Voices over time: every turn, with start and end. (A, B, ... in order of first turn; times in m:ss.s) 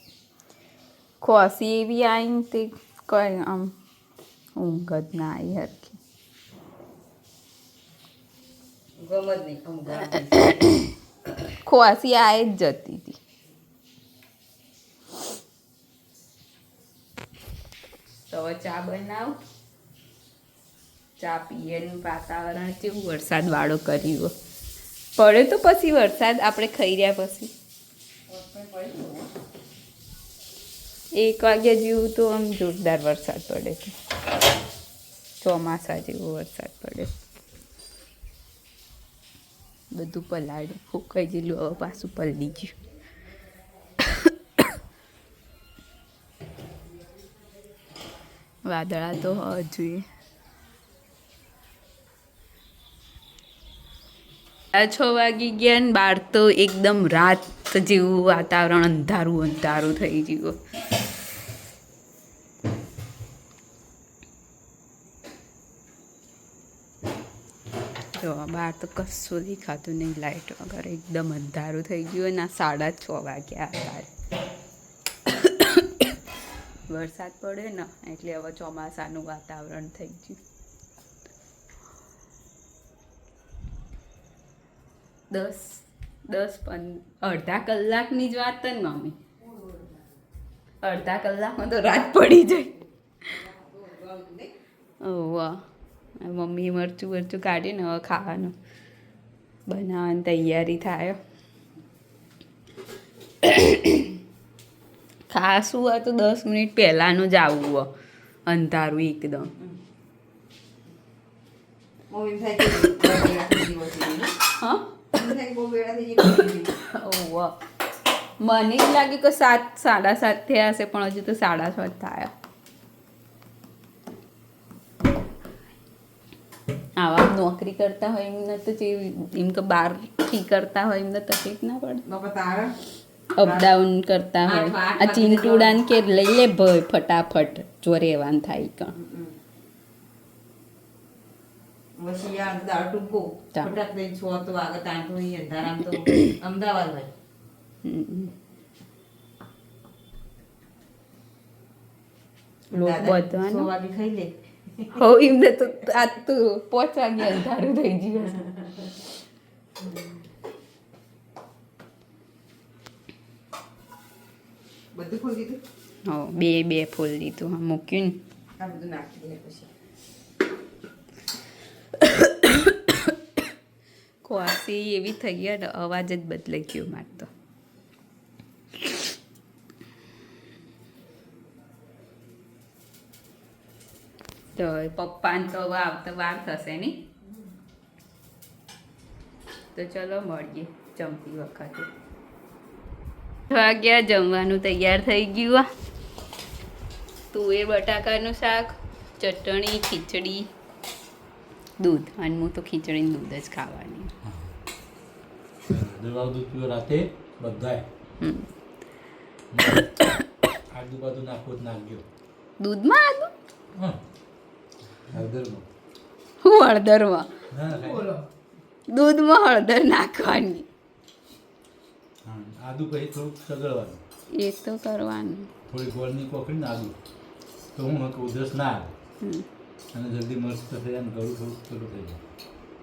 0:01.2-0:03.7 A
0:04.6-0:06.0 A
0:09.0-0:10.7 B
0:10.3-0:10.9 A
0:11.6-0:13.2 A
0:18.3-0:19.4 A
0:21.2-0:24.3 A
0:25.2-0:27.5 A
0:28.3-0:29.3 B
0:31.1-0:34.0 A
0:35.4-0:37.1 A
0:39.9-0:42.7 A
0:48.6-0:50.0 A
0:54.7-1:00.6 A
1:08.1-1:14.1 A
1:15.3-1:16.1 A
1:16.9-1:20.4 A
1:25.3-1:29.2 A
1:29.4-1:30.1 B
1:30.8-1:32.8 A
1:33.2-1:34.5 B
1:35.0-1:35.6 A
1:36.2-1:38.5 A
1:39.7-1:41.2 A
1:43.4-1:44.2 A
1:45.3-1:47.9 A
1:48.4-1:49.5 A
1:52.1-1:54.4 B
1:54.6-1:55.0 A
1:55.1-1:56.7 B
1:56.8-1:57.5 A
1:58.4-2:02.3 A
2:07.0-2:12.0 A
2:12.0-2:12.8 B
2:13.4-2:19.0 A
2:13.4-2:13.7 B
2:14.4-2:15.8 B
2:19.0-2:19.3 B
2:22.0-2:27.1 B
2:26.1-2:26.3 A
2:27.8-2:28.3 A
2:32.7-2:33.7 A
2:32.7-2:35.0 B
2:34.9-2:38.9 A
2:44.9-2:45.6 B
2:46.0-2:48.2 A
2:48.6-2:49.7 B
2:52.0-2:53.1 A
2:54.2-2:57.3 A
3:04.5-3:07.0 A
3:09.7-3:11.9 A
3:13.5-3:15.7 A
3:17.3-3:20.5 A
3:21.8-3:24.1 A
3:24.2-3:24.5 C
3:25.6-3:27.8 C
3:28.2-3:28.5 A
3:29.5-3:30.0 C
3:30.7-3:32.0 C
3:32.6-3:33.3 A
3:33.7-3:34.0 C
3:35.0-3:35.7 C
3:36.4-3:37.3 A
3:37.5-3:38.1 C
3:38.9-3:40.7 A
3:42.2-3:44.0 C
3:44.3-3:45.5 A
3:45.7-3:46.9 C
3:47.7-3:48.9 C
3:49.2-3:49.5 A
3:49.9-3:52.2 C